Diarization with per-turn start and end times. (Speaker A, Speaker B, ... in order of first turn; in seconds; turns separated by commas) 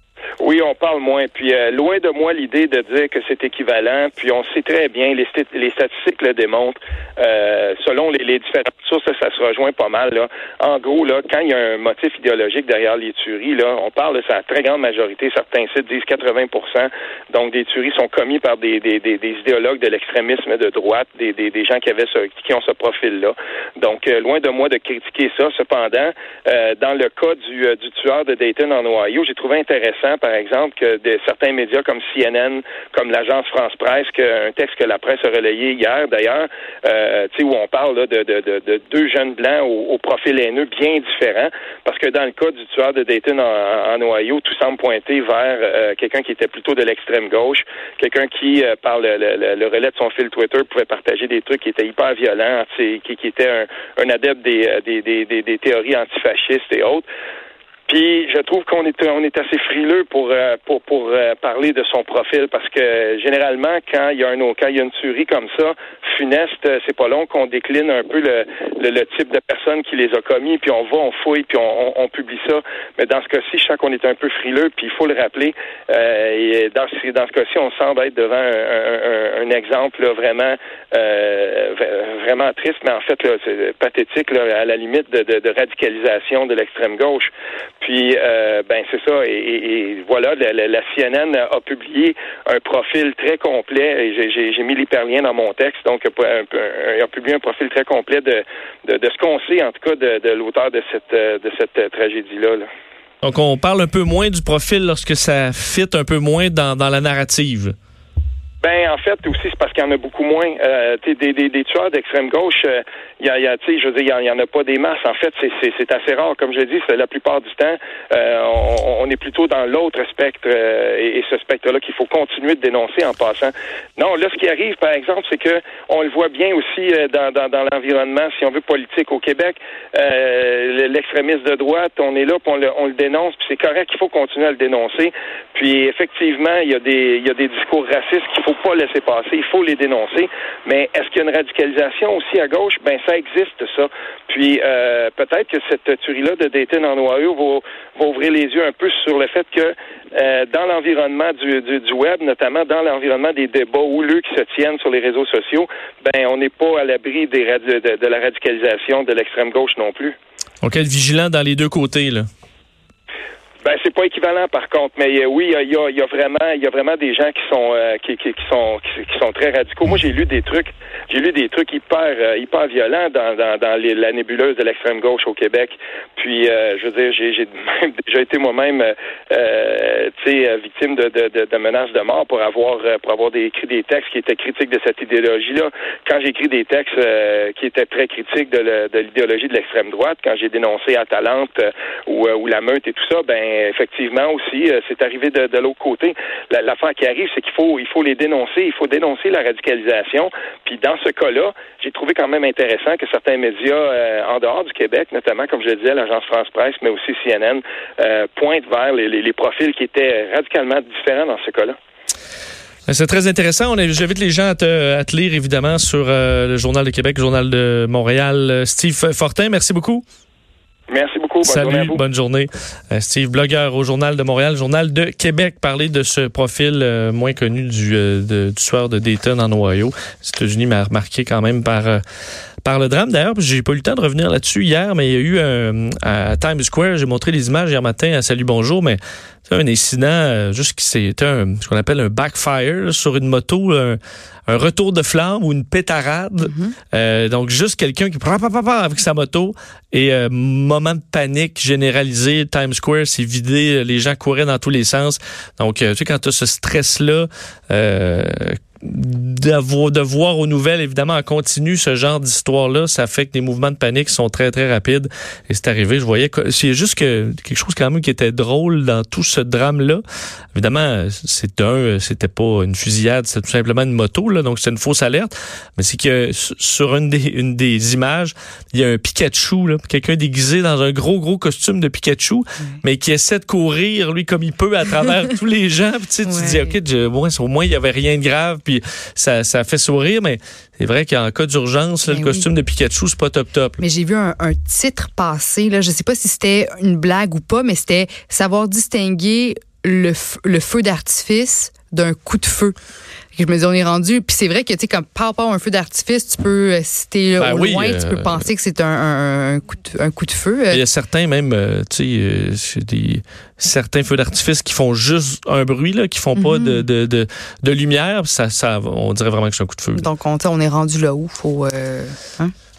Speaker A: 0.4-57.0, Speaker A: 57.9-102.7, Speaker B: 103.2-107.7, Speaker A: 108.6-160.2, Speaker B: 160.6-162.3, Speaker A: 163.6-211.8, Speaker B: 212.9-220.0, Speaker A: 220.9-222.0, Speaker B: 221.4-232.0, Speaker B: 232.6-270.0, Speaker C: 246.4-246.7, Speaker B: 270.5-293.8, Speaker C: 286.2-286.7, Speaker C: 292.1-292.4, Speaker C: 293.8-302.8, Speaker C: 303.3-310.8, Speaker B: 307.4-308.5, Speaker B: 310.7-320.1, Speaker C: 316.4-316.8, Speaker C: 319.9-322.5